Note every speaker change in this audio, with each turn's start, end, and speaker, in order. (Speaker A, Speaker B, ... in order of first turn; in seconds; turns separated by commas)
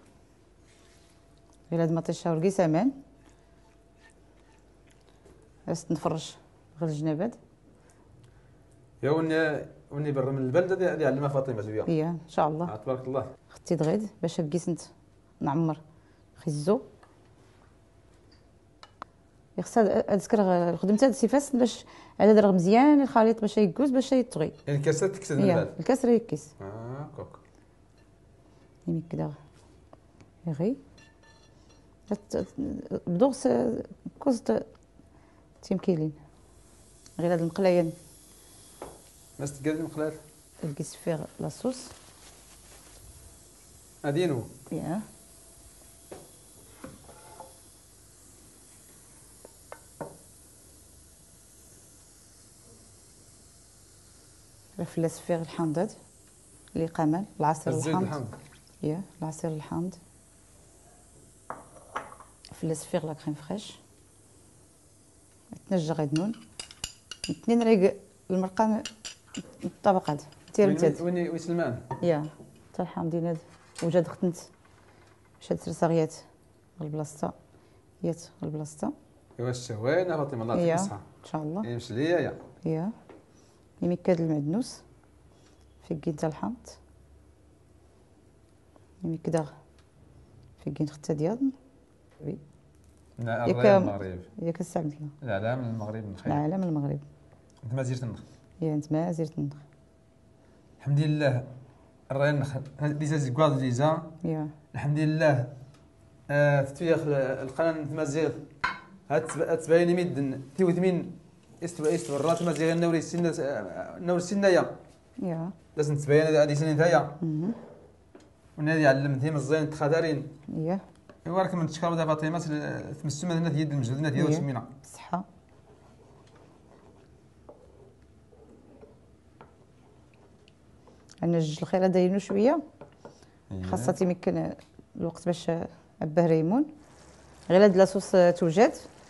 Speaker A: 1.7-2.9, Speaker A: 5.7-7.4, Speaker B: 9.0-11.9, Speaker A: 11.9-12.7, Speaker B: 12.7-13.3, Speaker A: 13.5-15.8, Speaker A: 16.4-16.8, Speaker A: 19.6-24.6, Speaker B: 24.6-25.7, Speaker A: 25.4-26.5, Speaker B: 26.6-27.4, Speaker A: 28.9-29.4, Speaker A: 30.4-30.8, Speaker A: 32.1-34.6, Speaker A: 35.6-36.2, Speaker A: 37.2-37.9, Speaker B: 39.4-40.2, Speaker A: 40.6-41.9, Speaker B: 44.0-44.5, Speaker A: 44.7-45.0, Speaker A: 54.8-56.0, Speaker A: 56.7-58.2, Speaker B: 57.6-58.4, Speaker A: 58.8-60.0, Speaker A: 62.5-63.8, Speaker A: 65.5-66.3, Speaker A: 67.3-68.9, Speaker A: 69.5-71.0, Speaker B: 70.6-71.9, Speaker A: 72.0-74.5, Speaker A: 75.4-76.2, Speaker A: 76.8-77.3, Speaker A: 78.0-78.9, Speaker B: 79.4-81.0, Speaker A: 80.5-81.7, Speaker B: 81.6-82.4, Speaker A: 82.6-82.9, Speaker A: 83.8-84.8, Speaker A: 85.8-86.8, Speaker A: 89.0-89.5, Speaker A: 90.6-91.5, Speaker B: 93.2-94.3, Speaker A: 93.4-95.1, Speaker B: 95.2-96.4, Speaker A: 96.2-97.0, Speaker B: 97.6-98.2, Speaker A: 98.6-99.6, Speaker B: 100.8-101.5, Speaker B: 102.1-104.1, Speaker A: 104.2-104.5, Speaker B: 104.7-105.5, Speaker B: 106.3-108.5, Speaker B: 109.1-114.8, Speaker A: 115.2-115.5, Speaker B: 115.8-117.2, Speaker A: 117.2-117.6, Speaker B: 118.5-120.3, Speaker A: 120.5-120.8, Speaker B: 121.2-124.7, Speaker A: 124.1-125.2, Speaker A: 131.2-132.6, Speaker B: 133.5-134.0, Speaker A: 133.6-136.7, Speaker A: 137.5-138.9